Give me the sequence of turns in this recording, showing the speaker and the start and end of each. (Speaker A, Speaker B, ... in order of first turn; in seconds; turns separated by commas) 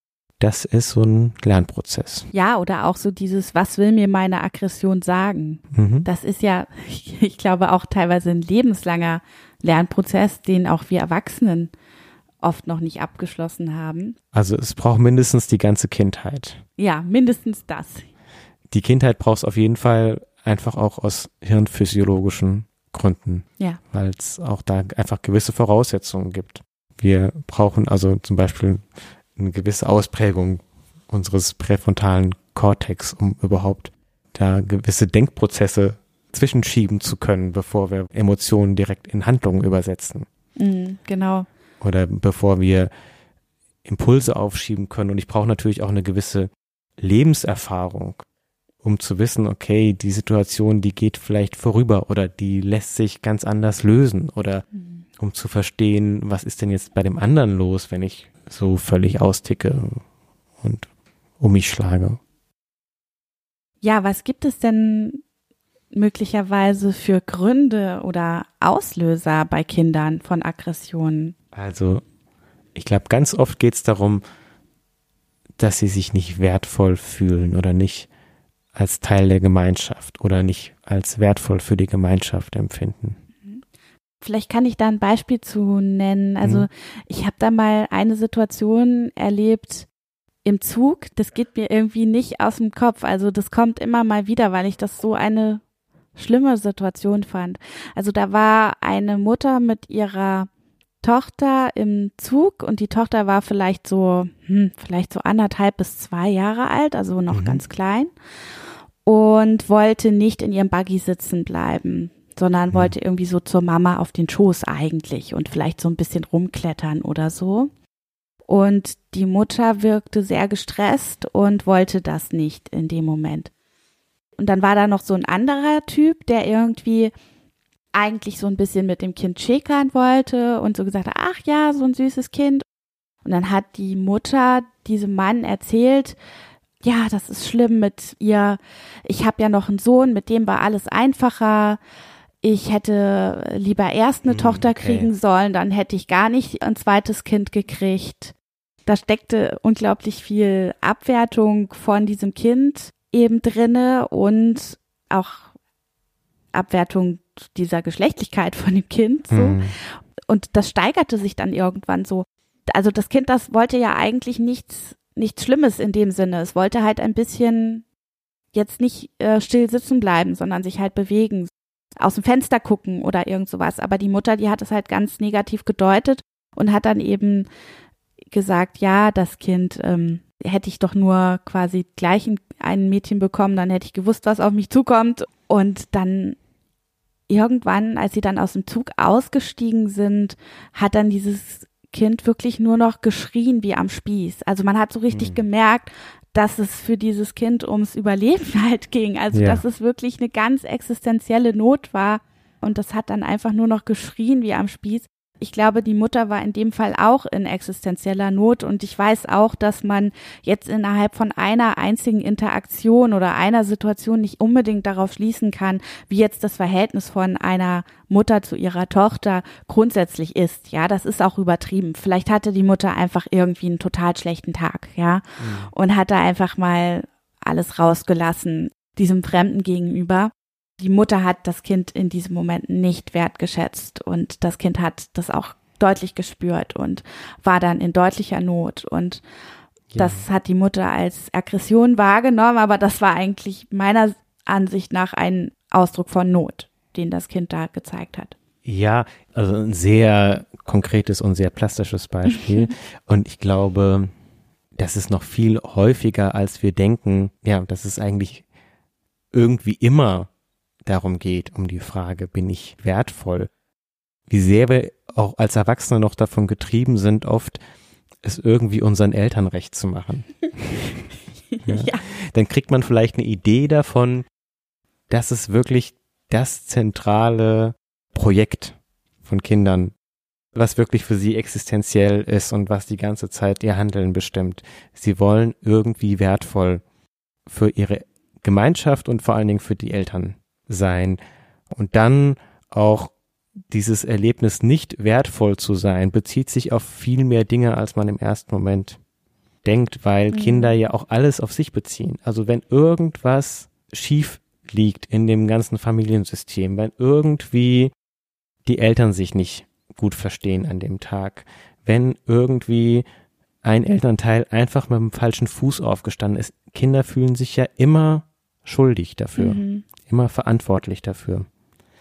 Speaker A: 0.4-2.3, Speaker B: 2.3-11.7, Speaker A: 5.7-6.1, Speaker B: 12.4-14.2, Speaker A: 14.3-16.6, Speaker B: 16.8-18.1, Speaker A: 18.7-40.3, Speaker B: 40.6-41.5, Speaker A: 41.8-42.9, Speaker A: 43.8-48.2, Speaker A: 48.8-54.6, Speaker B: 54.7-55.0, Speaker A: 55.2-60.0, Speaker A: 60.6-60.9, Speaker A: 61.4-62.2, Speaker B: 63.8-65.2, Speaker B: 65.9-71.3, Speaker A: 71.5-72.0, Speaker A: 72.7-74.2, Speaker A: 75.6-78.1, Speaker A: 78.7-83.2, Speaker B: 84.2-89.9, Speaker A: 86.4-86.7, Speaker B: 90.4-95.6, Speaker B: 96.2-100.5, Speaker B: 101.0-108.1, Speaker A: 107.3-107.6, Speaker B: 109.0-117.7, Speaker B: 118.5-123.5, Speaker B: 124.4-127.1, Speaker B: 127.9-132.6, Speaker B: 133.2-136.2, Speaker B: 136.8-141.8, Speaker B: 142.4-148.3, Speaker A: 144.3-145.1, Speaker B: 148.8-155.5, Speaker B: 156.5-167.8, Speaker A: 159.3-159.7, Speaker B: 168.5-177.5, Speaker B: 178.3-186.4, Speaker B: 187.3-239.2, Speaker A: 195.1-195.4, Speaker A: 199.3-199.6, Speaker A: 225.4-225.7, Speaker A: 239.9-240.2, Speaker B: 239.9-248.3, Speaker A: 248.6-254.1, Speaker A: 254.8-258.4, Speaker A: 259.3-260.3, Speaker A: 260.8-263.5, Speaker A: 264.3-267.6, Speaker A: 268.2-270.9, Speaker B: 271.5-272.0, Speaker A: 271.6-274.2, Speaker A: 275.1-279.9, Speaker A: 280.5-286.8, Speaker A: 287.4-291.2, Speaker A: 291.7-293.1, Speaker A: 293.7-299.0, Speaker A: 299.6-307.9, Speaker B: 300.3-300.7, Speaker A: 308.6-313.0, Speaker A: 313.6-321.5, Speaker B: 319.4-319.9